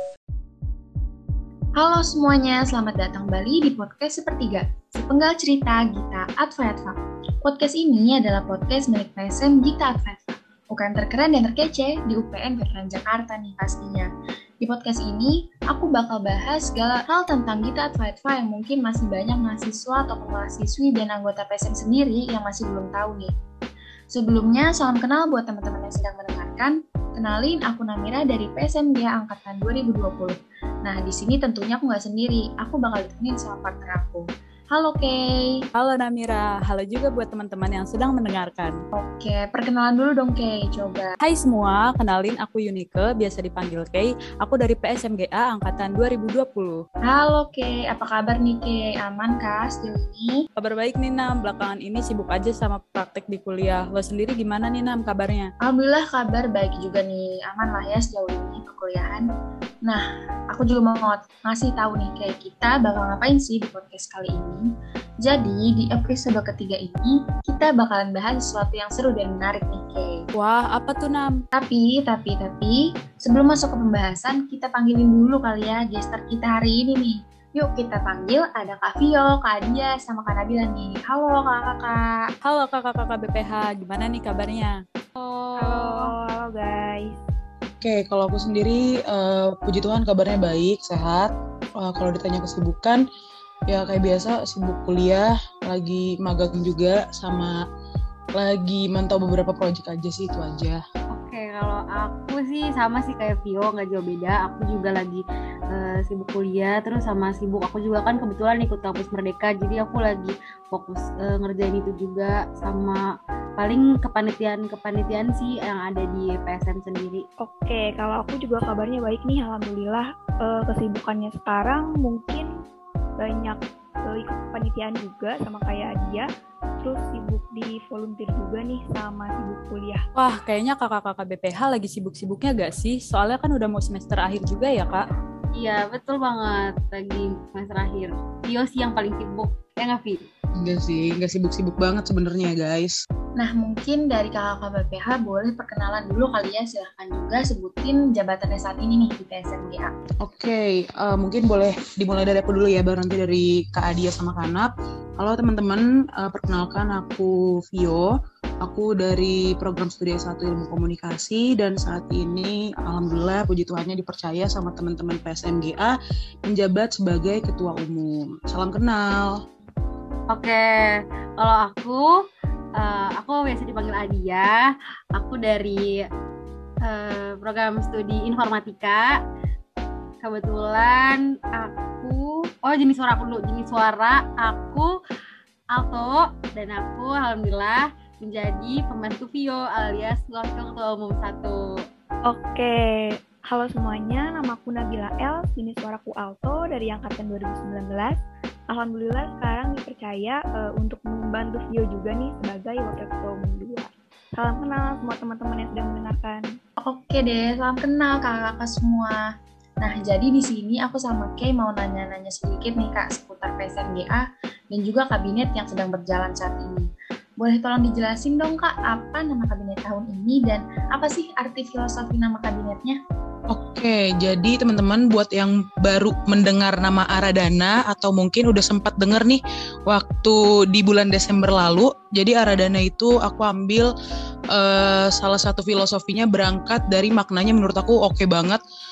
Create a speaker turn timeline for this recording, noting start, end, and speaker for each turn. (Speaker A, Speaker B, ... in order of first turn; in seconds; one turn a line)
Speaker A: 1.8-14.1
Speaker A: 14.6-23.3
Speaker A: 24.1-35.2
Speaker B: 35.8-38.8
Speaker A: 38.9-41.1
Speaker B: 41.2-46.8
Speaker A: 47.1-50.4
Speaker B: 50.6-55.5
Speaker A: 55.6-59.2
Speaker A: 59.9-64.7
Speaker A: 65.2-70.2
Speaker B: 70.3-71.3
Speaker A: 71.5-82.2
Speaker B: 82.4-84.7
Speaker C: 85.2-86.1
Speaker D: 85.6-87.2
Speaker E: 87.8-93.0
Speaker E: 93.7-97.5
Speaker E: 98.4-100.8
Speaker C: 101.1-113.0
Speaker C: 113.6-117.2
Speaker D: 117.4-122.5
Speaker D: 123.2-126.3
Speaker D: 126.8-130.0
Speaker B: 130.2-135.0
Speaker C: 135.5-140.3
Speaker E: 140.6-142.9
Speaker A: 143.4-149.9
Speaker E: 150.2-165.9
Speaker E: 166.5-169.4
Speaker C: 170.3-172.1
Speaker C: 172.8-176.0
Speaker C: 176.8-179.1
Speaker C: 180.2-184.9
Speaker C: 185.7-191.8
Speaker D: 192.3-198.2
Speaker D: 198.7-206.4
Speaker A: 206.8-209.2
Speaker A: 209.8-223.0
Speaker E: 223.5-233.9
Speaker E: 234.5-238.6